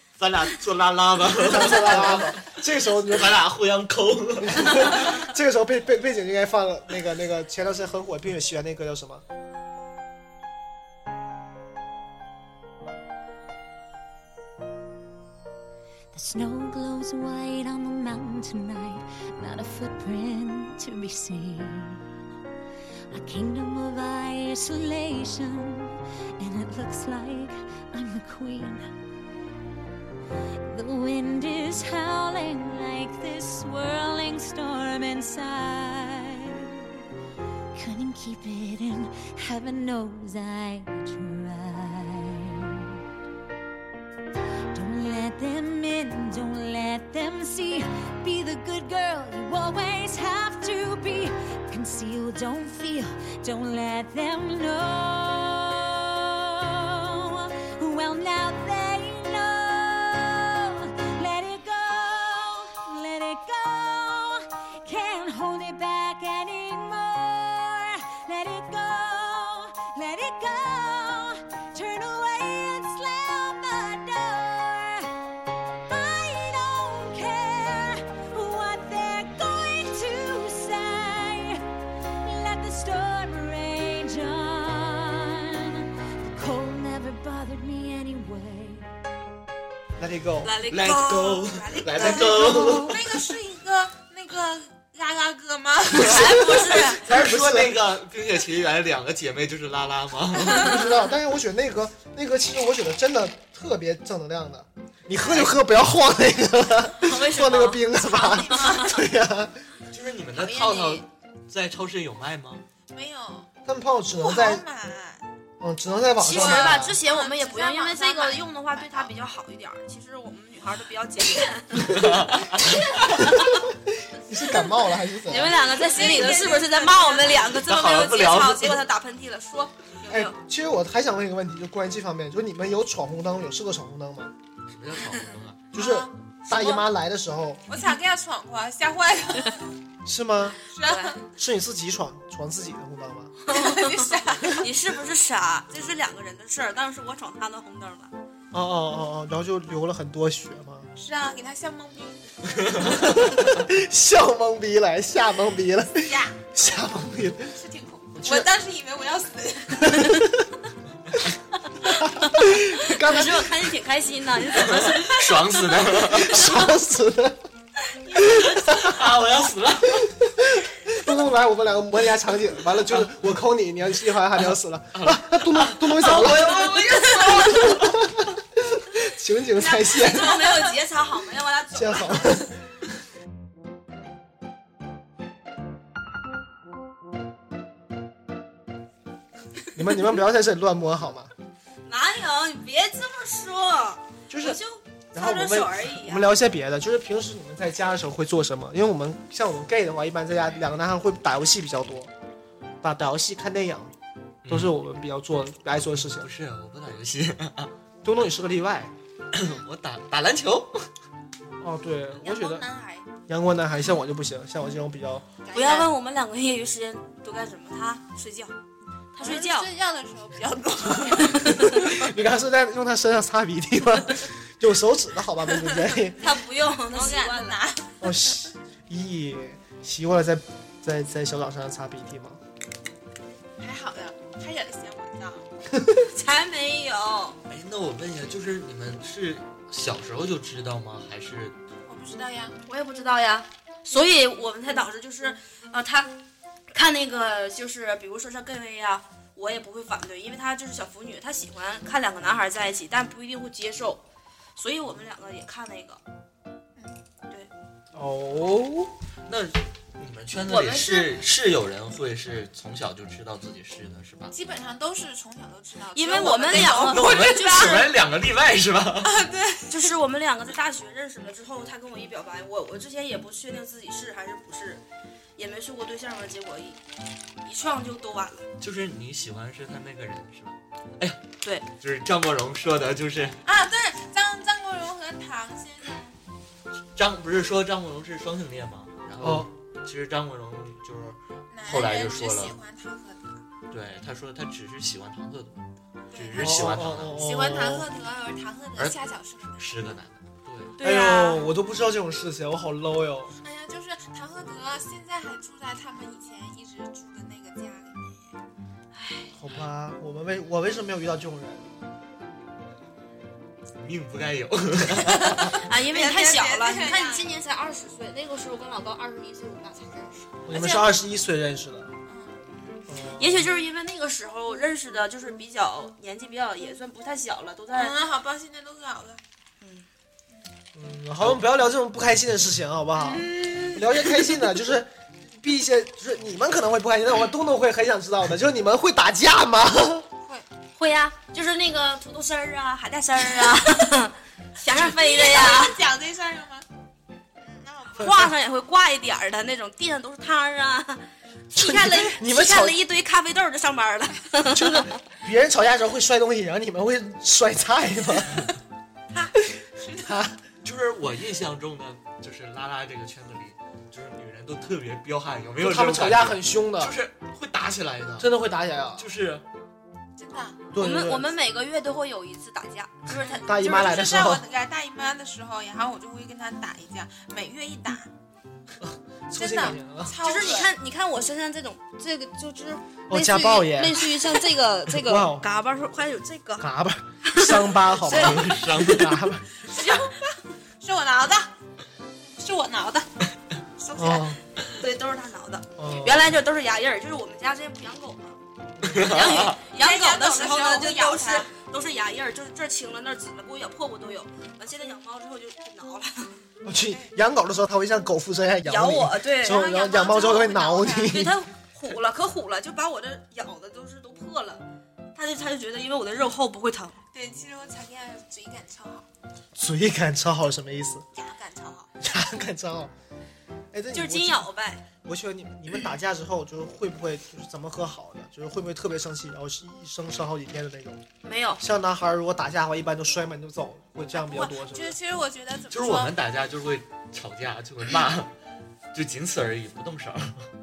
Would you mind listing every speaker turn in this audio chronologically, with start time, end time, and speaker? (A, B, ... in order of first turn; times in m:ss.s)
0:00.2-0:05.2 A
0:01.4-0:03.4 B
0:04.4-0:09.2 B
0:16.1-0:22.0 C
0:23.1-0:28.9 C
0:30.6-0:36.9 C
0:37.7-0:43.0 C
0:44.7-1:15.1 C
1:15.9-1:21.6 C
1:22.2-1:28.9 C
1:30.0-1:30.6 B
1:30.4-1:32.8 D
1:30.7-1:33.0 A
1:31.6-1:37.0 E
1:32.0-1:32.9 B
1:36.0-1:37.0 D
1:36.2-1:37.8 B
1:37.0-1:40.8 A
1:40.4-1:49.6 B
1:45.1-1:45.5 D
1:47.0-1:48.8 D
1:48.0-1:49.0 E
1:49.9-1:52.6 A
1:50.3-1:51.0 D
1:52.9-1:53.5 E
1:53.6-1:54.6 B
1:54.1-1:55.2 E
1:55.6-1:57.0 B
1:56.2-2:03.6 D
1:56.2-1:59.1 E
2:01.9-2:02.6 A
2:03.0-2:05.7 B
2:05.2-2:10.3 D
2:05.6-2:07.5 E
2:07.4-2:08.8 A
2:10.1-2:14.3 B
2:14.7-2:15.6 A
2:15.7-2:17.6 B
2:15.7-2:16.1 E
2:16.5-2:16.8 D
2:17.7-2:19.7 E
2:20.0-2:20.6 B
2:20.7-2:21.2 E
2:20.8-2:21.2 D
2:21.4-2:23.3 B
2:23.5-2:28.1 D
2:23.5-2:24.7 E
2:28.5-2:30.9 B
2:31.0-2:33.1 E
2:32.8-2:37.6 B
2:36.0-2:36.4 E
2:37.5-2:40.2 E
2:38.2-2:38.5 B
2:39.8-2:40.5 B
2:41.8-2:45.7 D
2:41.8-2:43.7 B
2:44.6-2:46.6 A
2:46.0-2:47.4 B
2:48.1-2:48.4 D
2:48.2-2:49.1 B
2:48.4-2:50.2 A
2:50.0-3:00.4 B
2:55.0-2:57.0 A
2:56.0-2:57.8 D
2:56.2-2:57.6 E
2:59.6-3:02.4 D
3:00.3-3:00.7 E
3:01.7-3:02.5 B
3:09.7-3:11.3 B
3:11.8-3:16.3 D
3:14.3-3:14.6 B
3:15.1-3:22.1 B
3:22.8-3:23.9 B
3:24.4-3:24.7 A
3:24.5-3:26.3 B
3:25.9-3:27.7 A
3:28.0-3:28.9 B
3:29.3-3:30.9 A
3:31.6-3:32.7 B
3:32.2-3:33.0 E
3:33.3-3:35.2 B
3:35.4-3:35.9 E
3:35.5-3:38.5 D
3:39.1-3:39.7 D
3:39.2-3:41.9 E
3:41.1-3:46.2 B
3:41.2-3:41.8 D
3:46.2-3:47.6 D
3:46.9-3:48.3 E
3:48.0-3:52.4 B
3:53.6-3:55.4 E
3:55.7-3:56.0 B
3:56.1-3:57.4 D
3:57.5-4:01.5 A
4:01.9-4:02.6 E
4:02.6-4:06.2 D
4:06.7-4:14.0 D
4:14.6-4:16.0 D
4:17.9-4:18.9 B
4:19.3-4:24.3 A
4:20.5-4:21.2 D
4:24.3-4:27.9 E
4:25.9-4:27.9 D
4:26.4-4:29.2 A
4:29.0-4:29.9 E
4:29.7-4:34.8 D
4:35.4-4:36.8 D
4:37.4-4:38.5 D
4:38.6-4:41.2 A
4:41.7-4:43.4 A
4:43.4-4:46.1 E
4:46.9-4:52.6 A
4:49.2-4:49.5 B
4:51.5-4:53.4 E
4:53.7-4:57.2 A
4:56.1-4:59.8 E
4:56.4-4:57.9 B
4:59.6-5:00.7 A
5:00.8-5:01.5 D
5:00.8-5:03.3 B
5:03.4-5:08.4 E
5:08.9-5:09.3 D
5:09.3-5:11.7 B
5:13.8-5:15.5 A
5:15.2-5:17.3 E
5:15.3-5:20.3 D
5:20.4-5:21.9 B
5:20.5-5:20.9 E
5:22.0-5:22.4 E
5:22.5-5:28.0 D
5:22.9-5:23.5 B
5:27.7-5:29.2 E
5:29.6-5:29.9 D
5:30.7-5:40.0 B
5:33.0-5:33.8 E
5:33.1-5:33.8 D
5:40.8-5:45.8 D
5:44.7-5:46.6 E
5:47.4-5:48.3 E
5:47.9-5:54.9 D
5:51.5-5:52.8 B
5:54.5-5:58.5 B
5:59.1-6:00.2 E
6:00.0-6:00.4 B
6:00.6-6:08.3 A
6:05.6-6:07.0 B
6:08.2-6:09.1 B
6:09.0-6:09.4 A
6:10.2-6:10.6 E
6:10.7-6:11.3 B
6:10.8-6:13.6 D
6:13.1-6:18.1 E
6:13.4-6:14.4 B
6:18.8-6:20.2 B
6:19.3-6:20.7 E
6:20.2-6:26.7 D
6:23.1-6:24.3 B
6:24.9-6:25.5 B
6:26.6-6:29.5 B
6:27.2-6:28.6 D
6:28.0-6:29.2 A
6:29.6-6:31.5 E
6:32.2-6:33.1 E
6:33.8-6:34.4 E
6:34.0-6:34.4 B
6:34.7-6:38.4 D
6:35.8-6:36.3 B
6:38.8-6:39.1 B
6:38.8-6:39.6 A
6:38.9-6:46.4 D
6:39.6-6:41.5 E
6:46.6-6:51.4 B
6:46.9-6:47.1 E
6:48.6-6:49.8 D
6:49.4-6:51.1 E
6:51.1-6:54.6 D
6:55.1-6:57.0 D
6:57.1-6:59.1 E
6:59.5-7:01.0 B
7:01.1-7:01.9 E
7:02.0-7:02.9 B
7:03.7-7:04.5 B
7:03.9-7:04.8 D
7:05.0-7:11.0 B
7:11.2-7:11.6 D
7:11.6-7:15.0 B
7:14.1-7:16.2 E
7:15.7-7:18.3 A
7:18.9-7:20.5 A